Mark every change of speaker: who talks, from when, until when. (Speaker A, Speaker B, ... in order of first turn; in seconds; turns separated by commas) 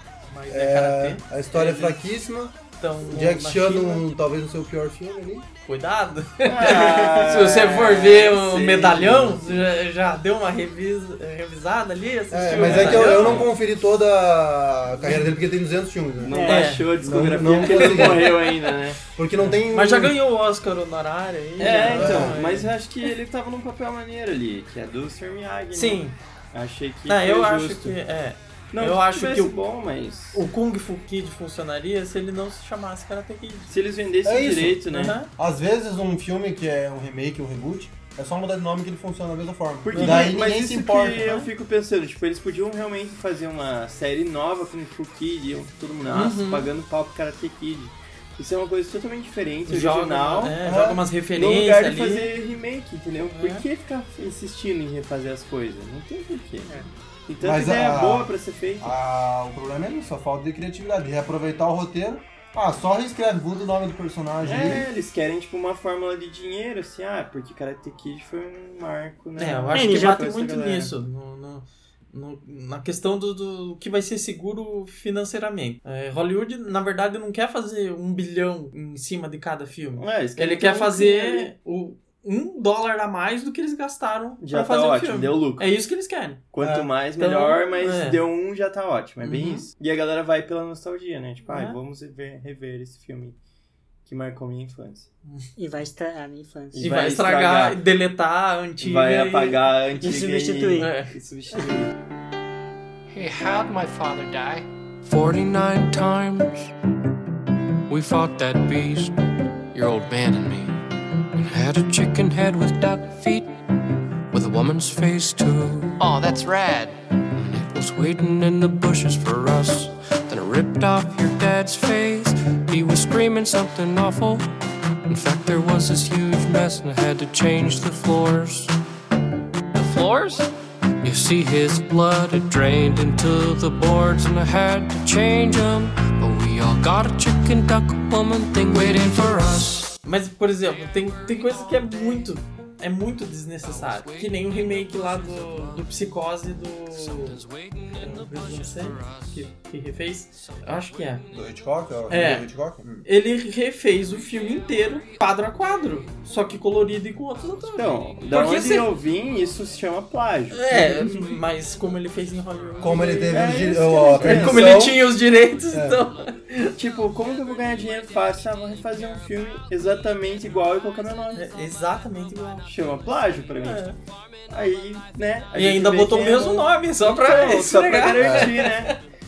Speaker A: 0.3-2.0, Speaker B: 0.5-5.5, Speaker A: 2.8-4.0, Speaker A: 5.7-13.5, Speaker C: 6.5-9.6, Speaker B: 12.3-18.4, Speaker C: 12.6-13.5, Speaker C: 16.2-19.0, Speaker D: 16.3-16.7, Speaker A: 16.4-16.9, Speaker A: 17.5-18.7, Speaker B: 19.1-20.2, Speaker A: 19.3-22.7, Speaker C: 21.6-28.0, Speaker B: 21.8-22.4, Speaker A: 25.7-26.2, Speaker A: 27.1-29.6, Speaker C: 28.7-30.4, Speaker A: 30.3-33.7, Speaker C: 33.7-35.2, Speaker B: 34.2-41.3, Speaker A: 34.9-35.3, Speaker C: 39.8-50.6, Speaker A: 39.9-40.4, Speaker A: 41.2-41.5, Speaker A: 46.1-46.7, Speaker A: 49.7-52.3, Speaker B: 50.6-51.0, Speaker C: 51.4-58.9, Speaker A: 53.3-53.6, Speaker B: 57.4-64.9, Speaker C: 64.4-70.9, Speaker A: 69.4-86.4, Speaker D: 69.7-70.3, Speaker C: 80.0-81.5, Speaker C: 84.4-85.7, Speaker C: 86.5-93.4, Speaker B: 86.6-86.9, Speaker A: 87.2-88.2, Speaker A: 89.2-89.7, Speaker A: 91.5-91.8, Speaker C: 94.1-95.1, Speaker D: 95.6-96.9, Speaker C: 96.7-97.8, Speaker A: 96.8-99.6, Speaker C: 98.8-101.9, Speaker D: 100.0-100.9, Speaker A: 100.8-101.1, Speaker E: 103.1-106.7, Speaker E: 107.9-109.2, Speaker E: 109.7-110.8, Speaker E: 111.3-113.5, Speaker E: 114.3-124.5, Speaker E: 125.1-128.8, Speaker E: 129.7-139.9, Speaker A: 138.7-139.4, Speaker A: 140.0-147.4, Speaker E: 147.1-149.3, Speaker A: 148.0-151.2, Speaker B: 151.3-153.0, Speaker A: 152.1-152.5, Speaker A: 153.0-158.9, Speaker C: 157.8-161.2, Speaker A: 160.5-166.7, Speaker B: 162.8-165.1, Speaker C: 163.3-164.9, Speaker B: 165.7-166.0, Speaker C: 166.8-171.5, Speaker A: 171.3-172.7, Speaker C: 172.7-173.9, Speaker A: 173.6-174.0, Speaker C: 174.5-179.0, Speaker A: 175.6-179.0, Speaker B: 178.2-178.5